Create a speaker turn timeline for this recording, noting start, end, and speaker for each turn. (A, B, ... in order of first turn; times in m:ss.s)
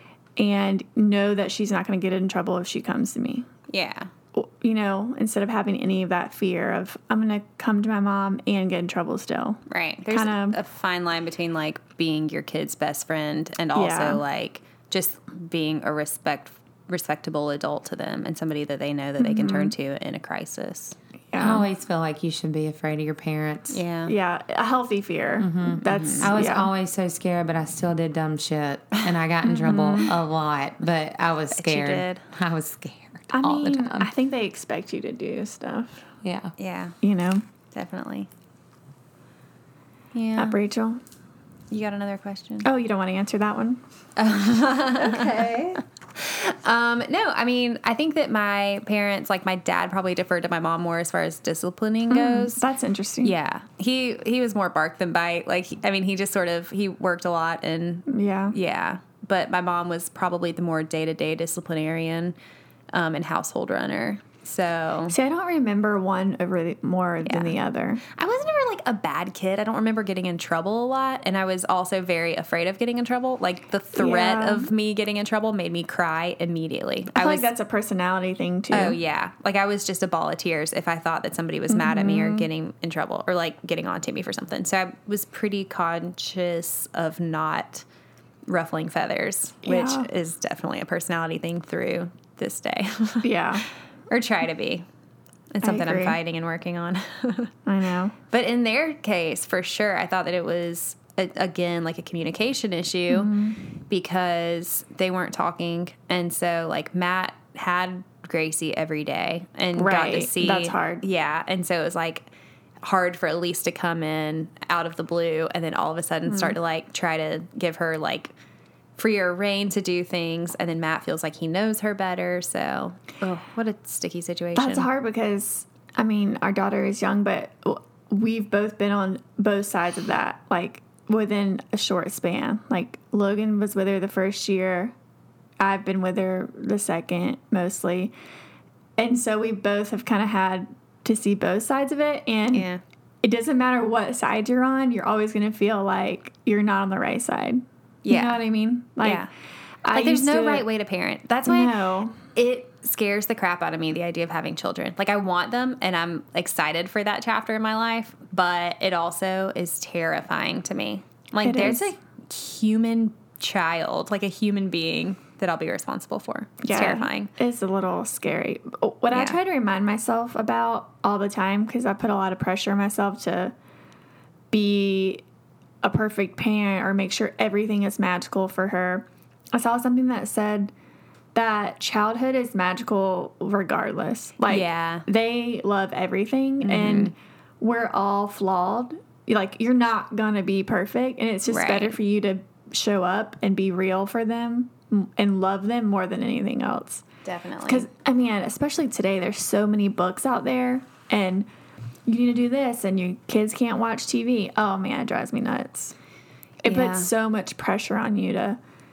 0:00.4-0:03.5 A
0:03.7-0:04.1 B
0:04.3-0:10.6 A
0:09.7-0:21.0 B
0:13.7-0:14.2 A
0:19.2-0:19.7 A
0:21.3-0:21.6 A
0:21.4-0:23.8 C
0:23.7-0:24.1 B
0:24.1-0:26.7 A
0:25.4-0:34.1 C
0:25.8-0:26.3 B
0:29.6-0:30.1 A
0:29.7-0:30.1 B
0:31.5-0:32.2 B
0:33.3-0:36.1 A
0:36.2-0:36.5 C
0:36.6-0:37.0 B
0:37.0-0:37.4 A
0:37.7-0:38.3 B
0:40.1-0:40.6 B
0:40.4-0:41.0 A
0:41.7-0:42.7 B
0:42.6-0:43.8 A
0:44.2-0:52.6 B
0:52.1-0:53.3 A
0:53.2-1:02.4 B
0:58.1-0:58.5 A
1:02.9-1:05.2 B
1:05.1-1:08.0 A
1:07.2-1:07.5 B
1:08.1-1:17.5 B
1:14.0-1:14.7 A
1:17.1-1:19.0 A
1:18.7-1:27.8 B
1:21.7-1:22.5 A
1:28.5-1:33.3 B
1:29.6-1:30.1 A
1:33.2-1:33.6 A
1:34.1-1:34.8 B
1:35.5-1:37.5 B
1:35.6-1:36.2 A
1:37.6-1:38.1 A
1:38.3-1:43.3 B
1:43.1-1:43.6 A
1:43.9-1:52.3 B
1:49.8-1:51.0 A
1:52.8-1:58.3 B
1:56.3-1:56.6 A
1:59.0-2:04.9 B
2:04.6-2:14.9 A
2:15.6-2:18.1 A
2:19.0-2:22.7 A
2:22.5-2:22.8 B
2:23.2-2:29.2 A
2:28.0-2:28.4 B
2:29.0-2:29.3 B
2:29.8-2:30.6 A
2:29.9-2:31.7 B
2:31.4-2:32.2 A
2:32.3-2:47.3 B
2:41.4-2:41.9 A
2:46.6-2:53.5 A
2:49.1-2:49.4 B
2:54.5-2:55.2 A
2:55.8-3:00.7 A
3:01.3-3:17.0 A
3:04.5-3:05.0 B
3:06.6-3:07.1 B
3:11.5-3:12.0 B
3:17.2-3:17.9 B
3:17.6-3:21.5 A
3:22.0-3:25.9 A
3:26.6-3:28.6 A
3:26.6-3:27.1 B